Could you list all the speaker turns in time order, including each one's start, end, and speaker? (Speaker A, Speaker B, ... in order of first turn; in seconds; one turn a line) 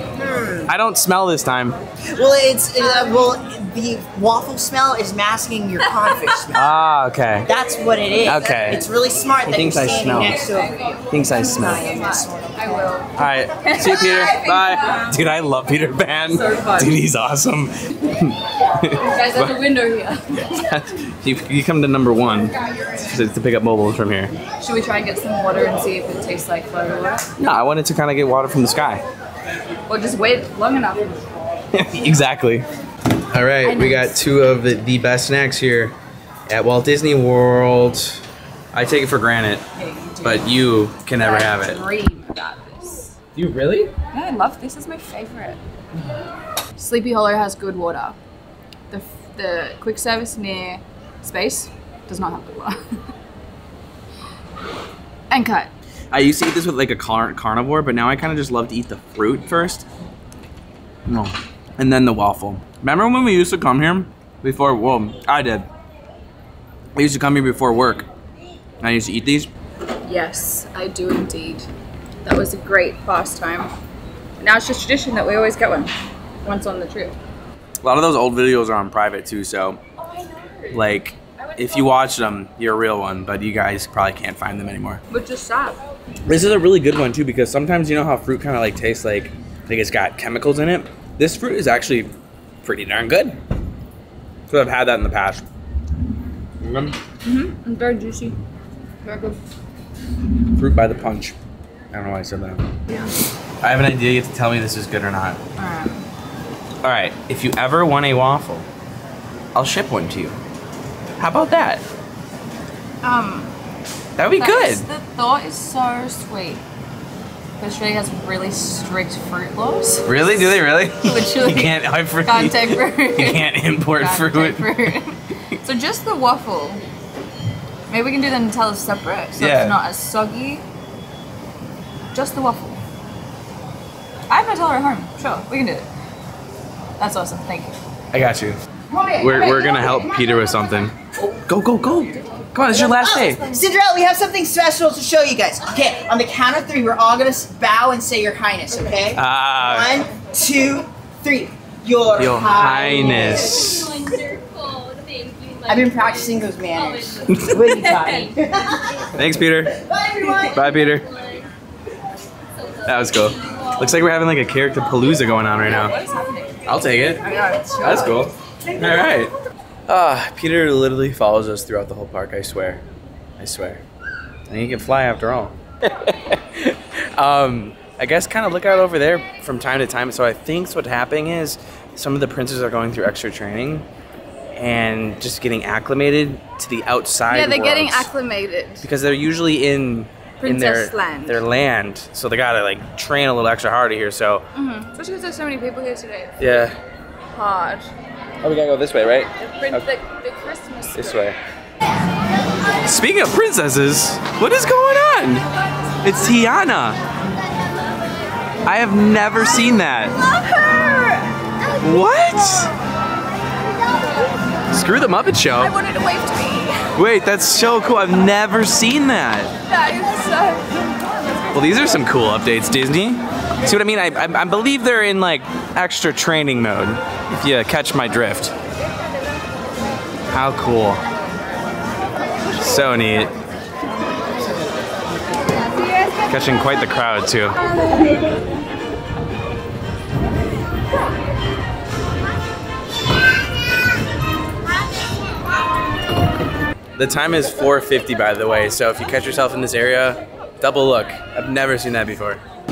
Speaker A: 0.1-0.7
Speaker B: 0.7-1.8
Speaker A: 2.1-6.7
Speaker C: 2.8-3.3
Speaker C: 5.8-6.4
Speaker B: 6.5-7.5
Speaker A: 7.5-10.8
Speaker B: 8.2-8.8
Speaker B: 9.4-10.4
Speaker C: 10.4-11.0
Speaker B: 11.1-11.8
Speaker A: 11.3-12.8
Speaker C: 11.7-15.2
Speaker B: 13.2-19.6
Speaker C: 16.3-16.9
Speaker C: 19.0-20.5
Speaker B: 20.3-24.3
Speaker C: 24.6-27.3
Speaker B: 27.4-29.0
Speaker C: 29.9-31.2
Speaker B: 31.7-32.6
Speaker B: 33.3-36.0
Speaker C: 33.6-34.1
Speaker B: 36.5-38.2
Speaker B: 38.7-39.6
Speaker C: 39.8-40.6
Speaker B: 40.2-41.8
Speaker C: 41.2-43.1
Speaker B: 43.3-43.9
Speaker C: 44.1-45.6
Speaker C: 46.8-48.2
Speaker C: 48.9-52.8
Speaker C: 55.3-55.7
Speaker B: 56.1-59.9
Speaker B: 61.0-65.7
Speaker B: 66.9-68.1
Speaker B: 68.8-69.5
Speaker C: 70.0-71.7
Speaker C: 72.2-73.7
Speaker C: 74.4-75.9
Speaker C: 76.4-77.2
Speaker B: 77.8-79.8
Speaker C: 80.2-80.7
Speaker B: 80.7-85.0
Speaker C: 81.4-81.7
Speaker C: 85.1-85.8
Speaker B: 86.2-92.1
Speaker B: 92.6-93.4
Speaker B: 94.5-95.4
Speaker B: 96.6-97.0
Speaker C: 97.2-98.3
Speaker C: 99.0-99.4
Speaker B: 100.5-101.3
Speaker B: 101.9-102.6
Speaker B: 103.6-105.4
Speaker C: 105.6-106.0
Speaker B: 106.8-108.7
Speaker B: 109.5-110.4
Speaker B: 111.2-111.8
Speaker C: 113.0-113.5
Speaker B: 114.2-114.8
Speaker C: 114.3-116.6
Speaker C: 117.6-126.8
Speaker B: 120.0-124.9
Speaker C: 127.9-130.6
Speaker B: 129.4-129.8
Speaker C: 132.1-132.8
Speaker C: 134.3-135.9
Speaker C: 137.0-137.8
Speaker B: 138.1-138.6
Speaker C: 138.9-140.1
Speaker B: 139.2-140.9
Speaker B: 141.5-143.4
Speaker C: 142.7-143.6
Speaker A: 143.0-153.7
Speaker B: 149.1-149.9
Speaker B: 152.2-154.1
Speaker C: 153.6-155.7
Speaker A: 155.7-159.0
Speaker C: 157.1-158.3
Speaker B: 157.3-157.6
Speaker B: 159.1-159.8
Speaker A: 160.0-160.5
Speaker B: 160.5-161.1
Speaker B: 162.8-165.9
Speaker C: 165.7-168.2
Speaker B: 166.7-167.2
Speaker B: 167.8-169.3
Speaker B: 169.9-172.8
Speaker B: 173.4-173.8
Speaker B: 174.5-183.9
Speaker B: 184.6-188.1
Speaker C: 187.3-188.8
Speaker B: 188.8-194.4
Speaker C: 190.4-191.4
Speaker C: 194.5-196.5
Speaker B: 196.4-196.8
Speaker C: 197.3-197.9
Speaker B: 198.4-199.8
Speaker C: 199.4-201.3
Speaker B: 200.9-201.4
Speaker B: 202.8-205.4
Speaker B: 206.0-207.0
Speaker B: 208.6-210.2
Speaker C: 210.3-211.3
Speaker B: 211.8-212.7
Speaker B: 214.7-215.7
Speaker C: 215.6-216.9
Speaker B: 216.9-219.5
Speaker C: 219.7-221.5
Speaker B: 221.5-228.5
Speaker B: 230.3-231.0
Speaker B: 232.5-233.3
Speaker B: 236.2-237.6
Speaker B: 247.0-252.4